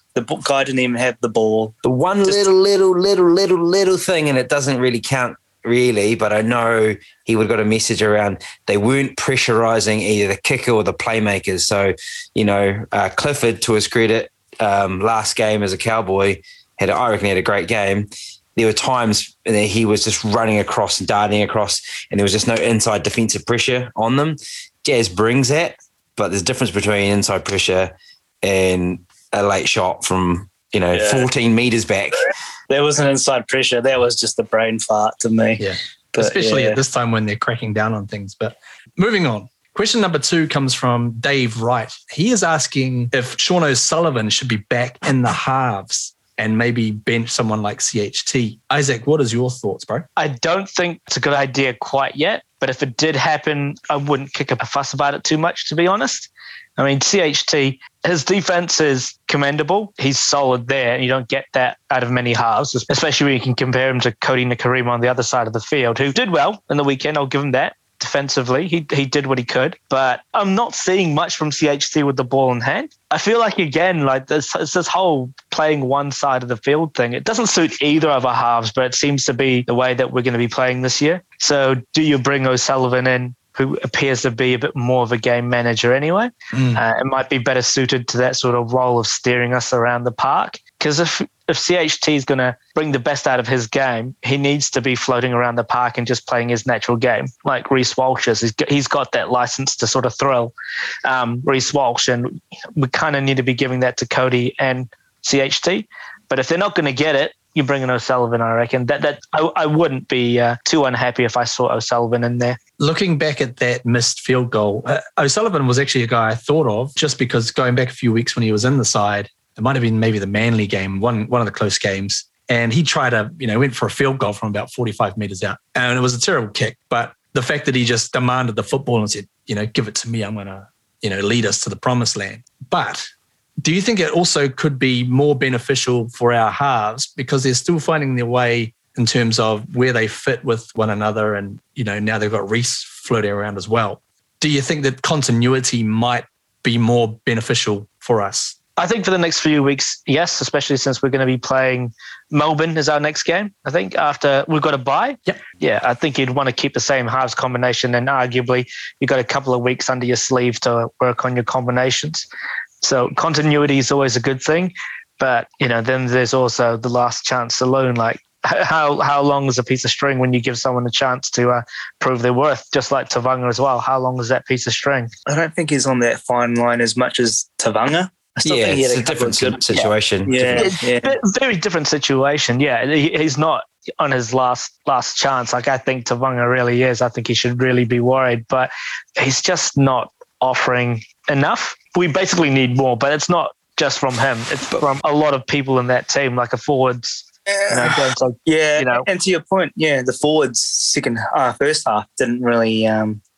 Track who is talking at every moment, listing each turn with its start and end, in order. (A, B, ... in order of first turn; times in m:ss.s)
0:00.1-0:02.5 A
0:01.8-0:32.3 B
0:30.9-0:31.3 A
0:32.7-0:36.8 A
0:35.6-0:50.1 C
0:50.2-1:40.5 D
1:26.5-1:26.8 C
1:41.0-1:52.6 D
1:52.8-2:13.1 C
2:13.6-2:28.6 C
2:28.8-2:42.2 D
2:42.8-2:55.1 D
2:55.2-3:01.1 A
2:58.4-3:00.7 B
3:00.6-3:19.0 D
3:17.6-3:23.2 A